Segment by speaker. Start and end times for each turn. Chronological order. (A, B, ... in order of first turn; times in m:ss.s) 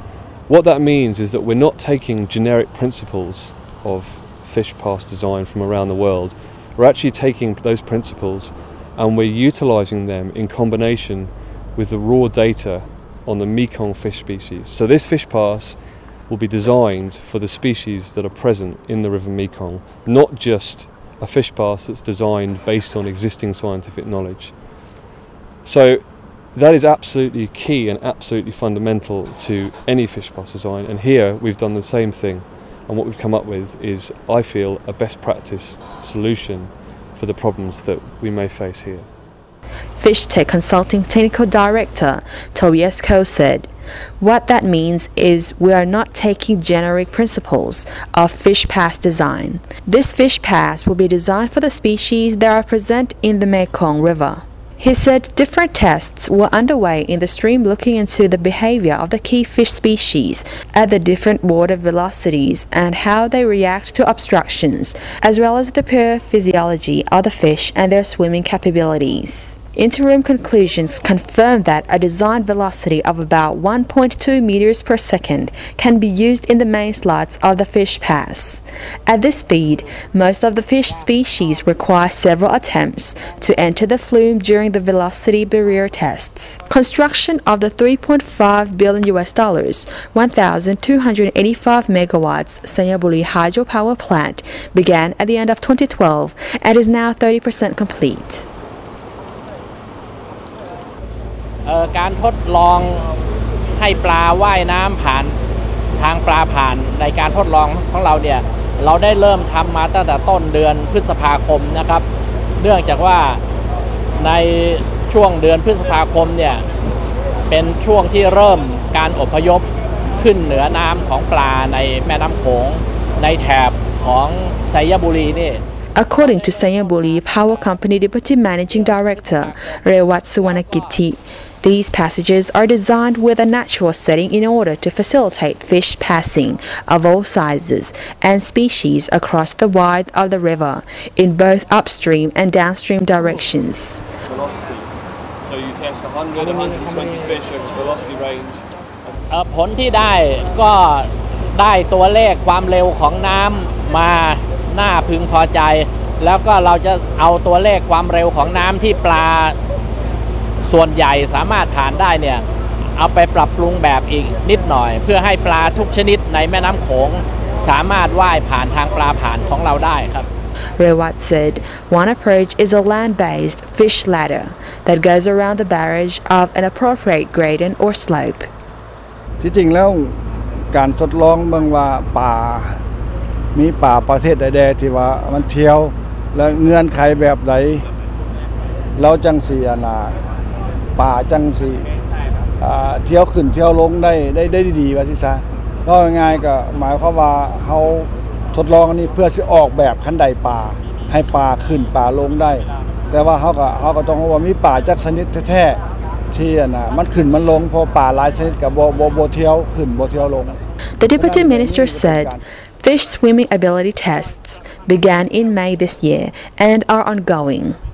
0:00.5-0:15.8 A
0:16.3-0:24.6 A
0:25.6-0:39.1 A
0:40.0-1:38.5 B
1:41.6-1:43.1 C
1:43.7-1:45.4 C
1:46.0-1:52.1 C
1:52.6-1:53.4 C
1:54.2-1:56.6 C
1:57.5-1:59.6 C
2:00.2-2:05.6 C
2:06.0-2:24.0 B
2:06.2-2:07.7 C
2:08.7-2:11.0 C
2:24.3-2:24.9 A
2:25.4-2:29.1 A
2:29.3-2:39.6 C
2:40.6-2:42.4 C
2:43.0-2:50.3 C
2:50.8-2:58.5 B
2:59.4-3:00.2 D
3:00.7-3:02.8 D
3:03.5-3:07.9 D
3:09.0-3:10.2 D
3:11.0-3:11.9 D
3:12.6-3:25.8 D
3:26.3-3:30.6 D
3:31.0-3:37.8 B
3:31.2-3:32.4 D